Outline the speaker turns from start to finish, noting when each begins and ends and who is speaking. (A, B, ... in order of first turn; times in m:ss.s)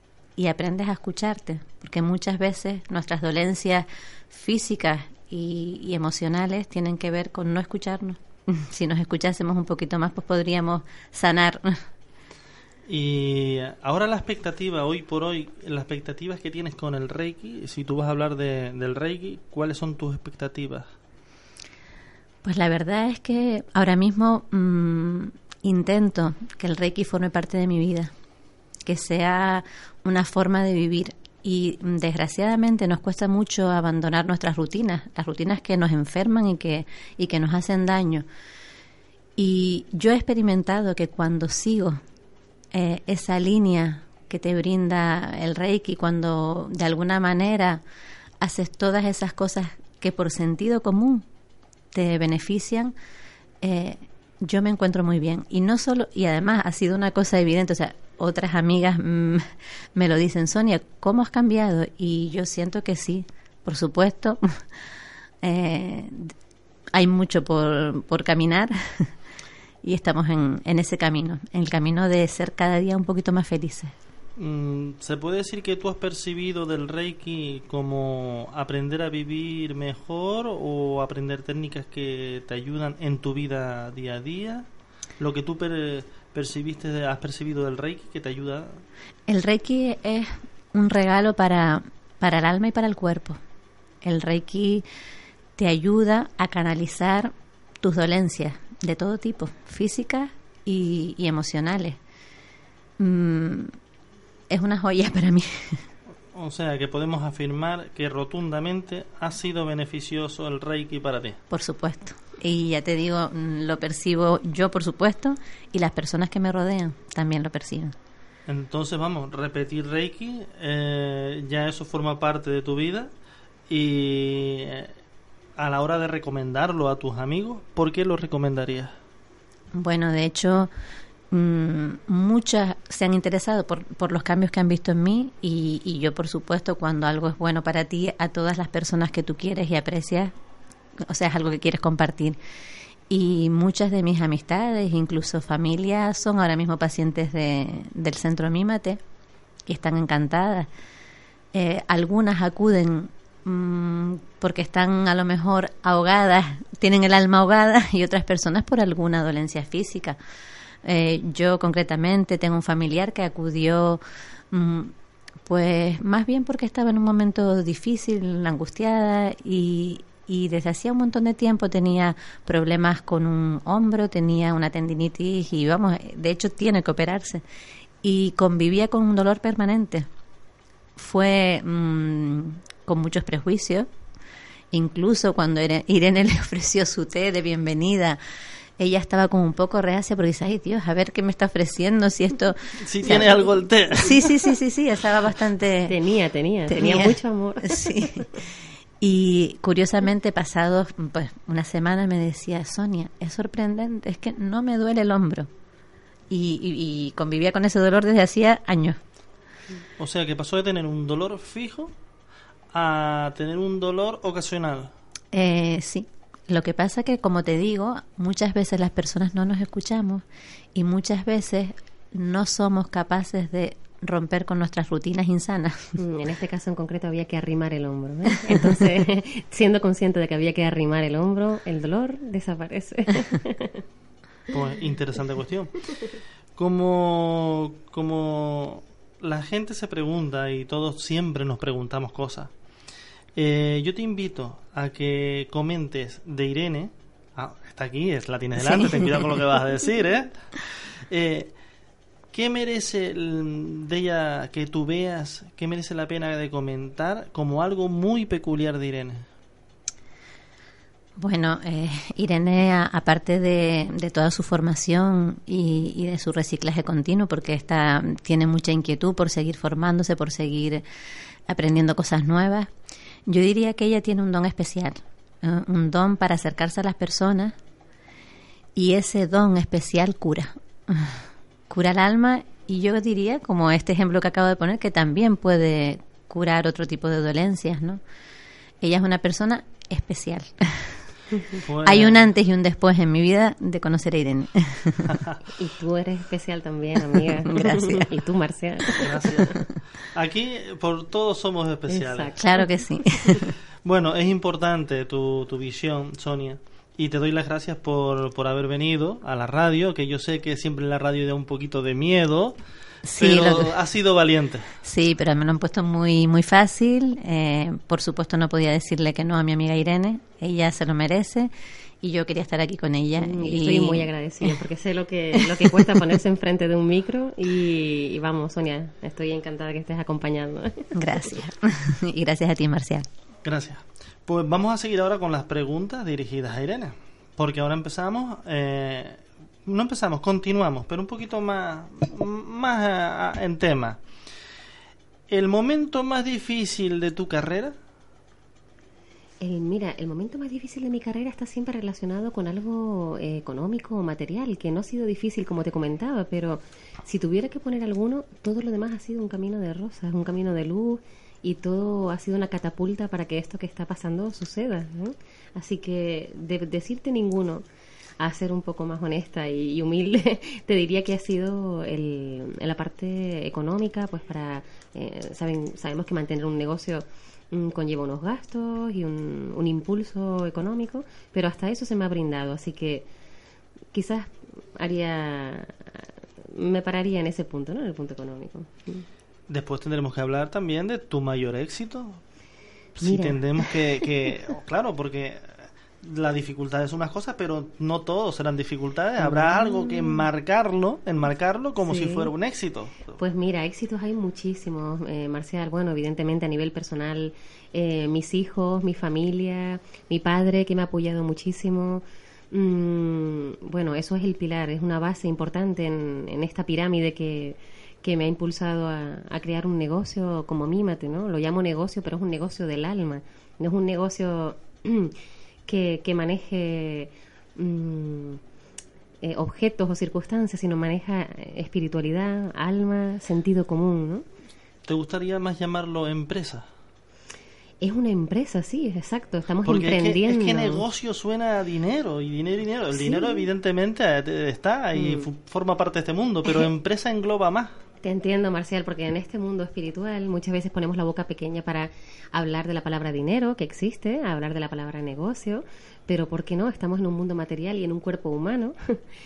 0:00.4-0:11.8 A
0:12.9-0:20.9 B
0:22.4-0:28.1 A
0:28.9-0:38.2 A
0:39.4-0:42.0 A
0:42.7-0:47.8 A
0:48.4-0:51.2 A
0:51.9-0:52.9 A
0:53.6-1:04.6 A
1:05.4-1:06.3 A
1:07.0-1:09.1 A
1:09.8-1:13.9 A
1:14.4-1:24.7 B
1:25.2-1:28.8 B
1:29.3-1:33.4 A
1:34.0-1:34.8 A
1:35.6-1:42.0 A
1:43.0-1:43.7 A
1:44.5-1:45.8 A
1:46.3-1:51.4 B
1:51.5-1:57.9 A
1:58.5-2:03.1 B
2:03.7-2:04.9 B
2:05.6-2:09.0 B
2:09.8-2:10.7 A
2:11.3-2:20.3 A
2:21.0-2:22.4 A
2:23.1-2:29.0 A
2:29.7-2:30.7 A
2:31.5-2:40.2 A
2:40.8-2:44.9 A
2:45.5-2:57.4 A
2:58.0-3:00.1 A
3:01.0-3:03.9 A
3:04.7-3:08.2 A
3:08.8-3:13.3 A
3:12.8-3:14.4 B
3:14.0-3:16.0 A
3:15.9-3:17.9 C
3:16.7-3:25.5 A
3:26.3-3:29.0 A
3:30.0-3:31.9 B
3:32.7-3:34.9 B
3:35.3-3:40.2 A
3:40.8-3:45.9 A
3:46.0-3:53.8 C
3:54.5-3:55.8 B
3:56.6-4:02.5 B
4:03.4-4:10.3 B
4:08.6-4:09.4 A
4:11.1-4:11.5 B
4:12.3-4:19.2 B
4:21.2-4:30.8 A
4:31.5-4:32.7 A
4:33.3-4:37.6 A
4:38.8-4:48.0 A
4:48.8-4:51.0 A
4:51.6-4:52.3 B
4:51.8-4:55.0 A
4:55.1-4:55.4 B
4:55.6-4:59.2 C
4:57.2-4:58.2 A
4:59.0-4:59.6 B
5:00.1-5:02.3 B
5:01.9-5:03.1 C
5:02.4-5:03.5 A
5:03.8-5:12.6 B
5:13.1-5:13.7 A
5:13.2-5:14.7 B
5:14.8-5:21.5 A
5:22.0-5:24.6 A
5:23.2-5:30.9 C
5:25.4-5:26.0 A
5:31.0-5:33.1 A
5:33.4-5:44.0 B
5:45.3-5:47.8 B
5:49.4-6:07.6 C
6:08.2-6:23.1 C
6:23.9-6:29.0 C
6:29.5-6:32.2 B
6:33.0-6:43.2 B
6:33.0-6:33.7 C
6:39.2-6:40.3 C
6:41.8-6:42.3 C
6:43.2-7:05.1 C
7:05.7-7:08.4 C
7:09.2-7:14.2 C
7:14.9-7:16.7 B
7:17.8-7:20.8 C
7:19.6-7:27.7 B
7:22.9-7:23.5 C
7:25.0-7:25.3 C
7:28.0-7:39.0 C